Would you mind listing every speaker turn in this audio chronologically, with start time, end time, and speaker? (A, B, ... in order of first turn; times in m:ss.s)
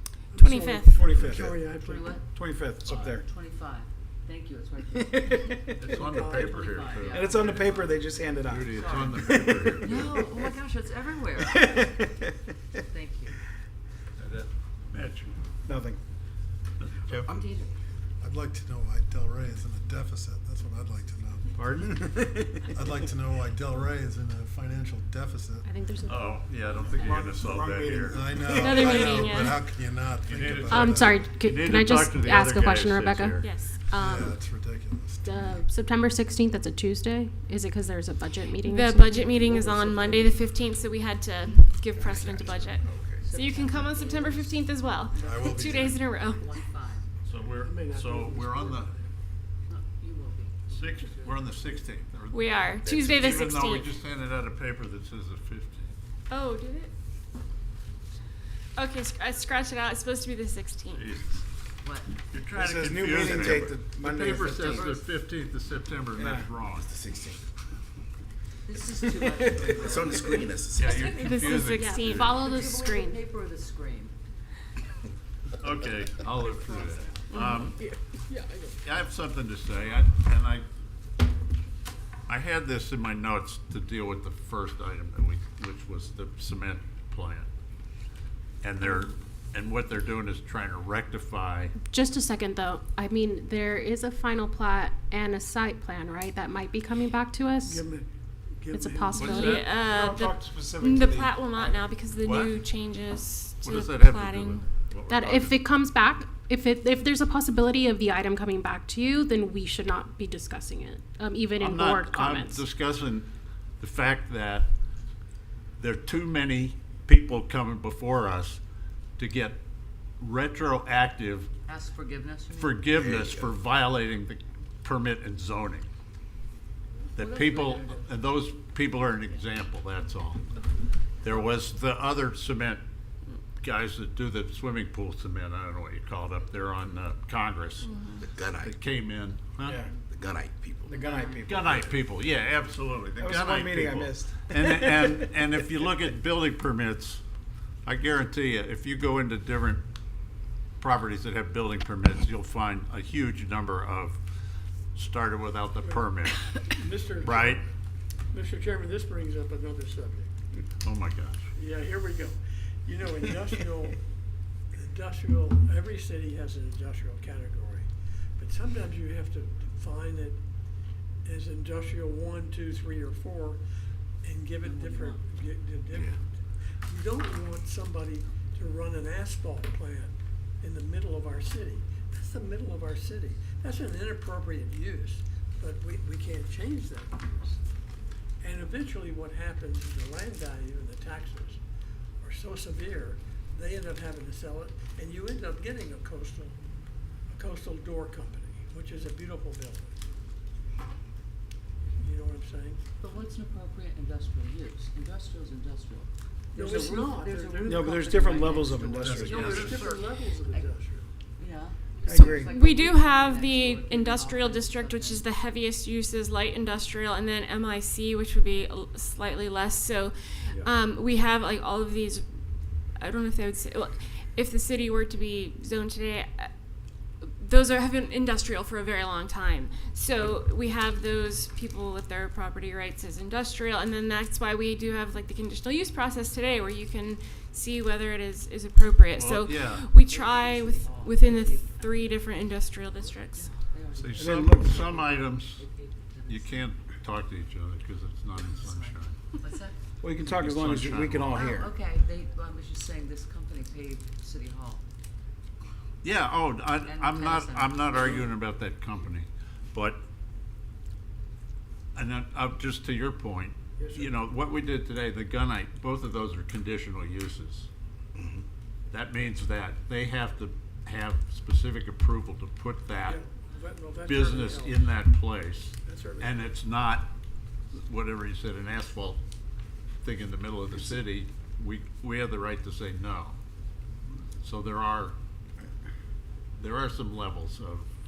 0:00.3-0:02.2 A
0:00.4-0:01.2 B
0:00.9-0:01.6 C
0:01.8-0:02.3 D
0:02.3-0:03.2 C
0:02.8-0:05.7 D
0:05.0-0:06.2 C
0:05.8-0:07.5 E
0:05.9-0:06.6 A
0:06.2-0:08.0 D
0:07.1-0:10.1 C
0:08.4-0:10.2 E
0:08.7-0:12.1 D
0:11.4-0:11.7 C
0:12.7-0:13.3 D
0:14.2-0:15.4 E
0:15.7-0:16.0 C
0:16.8-0:17.2 E
0:17.2-0:17.7 D
0:18.2-0:22.0 F
0:21.6-0:22.8 C
0:22.6-0:25.7 F
0:25.6-0:27.3 G
0:26.0-0:28.3 E
0:26.9-0:29.1 C
0:28.1-0:31.3 F
0:28.5-0:29.6 B
0:30.2-0:33.5 E
0:30.7-0:34.4 G
0:33.4-0:33.8 B
0:33.9-0:35.6 F
0:35.2-0:39.6 G
0:38.5-0:46.4 B
0:39.6-0:40.4 A
0:42.0-0:43.3 H
0:43.2-0:44.5 D
0:45.2-0:46.0 F
0:46.3-0:47.1 D
0:47.3-0:48.9 E
0:47.6-0:49.1 A
0:49.7-0:51.4 D
0:50.7-0:56.0 E
0:52.3-0:53.9 B
0:52.8-0:53.2 H
0:56.3-0:56.9 B
0:58.8-1:01.0 B
1:00.9-1:01.4 E
1:01.8-1:02.2 D
1:02.3-1:06.9 E
1:02.5-1:04.9 C
1:03.2-1:03.7 H
1:04.2-1:05.1 D
1:06.1-1:06.5 C
1:06.9-1:07.4 H
1:08.7-1:11.4 D
1:09.4-1:11.0 H
1:10.7-1:12.4 E
1:11.1-1:13.0 B
1:11.5-1:13.1 G
1:12.2-1:14.1 D
1:15.6-1:17.8 E
1:17.3-1:17.7 B
1:18.3-1:18.7 A
1:18.8-1:20.6 E
1:22.3-1:27.5 E
1:28.6-1:31.7 E
1:31.9-1:37.8 G
1:37.6-1:39.5 A
1:38.7-1:39.6 G
1:39.1-1:39.6 E
1:39.4-1:44.7 B
1:39.7-1:42.0 C
1:42.2-1:42.6 E
1:43.6-1:45.8 E
1:45.1-1:52.6 G
1:51.6-1:53.3 E
1:53.8-1:54.7 E
1:55.8-1:58.6 E
1:59.2-1:59.6 E
2:00.2-2:01.5 E
2:01.7-2:02.9 D
2:02.5-2:05.9 E
2:03.0-2:03.6 H
2:07.2-2:08.2 D
2:07.2-2:10.5 E
2:11.2-2:12.8 E
2:13.6-2:18.0 E
2:17.8-2:18.2 B
2:18.2-2:18.8 H
2:18.5-2:19.8 E
2:19.6-2:19.9 C
2:20.0-2:21.0 H
2:20.9-2:22.0 C
2:20.9-2:21.5 D
2:21.4-2:27.2 E
2:23.2-2:25.7 C
2:27.9-2:29.8 E
2:30.8-2:34.2 E
2:35.0-2:37.6 E
2:35.8-2:36.1 A
2:36.8-2:37.6 A
2:38.3-2:40.3 A
2:40.8-2:41.5 E
2:41.6-2:44.0 A
2:44.7-2:50.4 A
2:51.2-2:53.6 A
2:54.2-2:56.3 A
2:54.6-2:55.4 D
2:55.9-2:56.2 E
2:56.9-3:07.6 A
3:08.4-3:11.6 A
3:12.2-3:16.6 A
3:17.3-3:20.0 A
3:22.0-3:22.8 A
3:23.0-3:30.8 D
3:26.5-3:28.4 A
3:27.6-3:29.4 C
3:29.0-3:29.6 F
3:29.3-3:31.1 A
3:29.3-3:30.0 E
3:31.4-3:35.2 D
3:32.1-3:32.6 C
3:32.1-3:42.2 B
3:43.0-3:46.5 B
3:47.2-4:03.5 B
3:59.1-4:00.0 E
4:00.0-4:02.2 D
4:03.0-4:06.7 D
4:03.9-4:05.6 E
4:04.2-4:04.8 C
4:06.3-4:09.2 E
4:08.6-4:09.8 D
4:10.0-4:11.7 C
4:10.2-4:11.5 E
4:11.3-4:14.8 D
4:16.0-4:20.0 E
4:16.8-4:18.2 D
4:21.9-4:27.7 E
4:23.8-4:24.1 A
4:28.2-4:28.4 H
4:28.9-4:33.2 E
4:33.0-4:34.8 A
4:34.0-4:37.1 E
4:35.8-4:36.5 A
4:37.8-4:39.2 E
4:40.0-4:43.4 E
4:44.4-4:45.2 E
4:46.6-4:47.9 E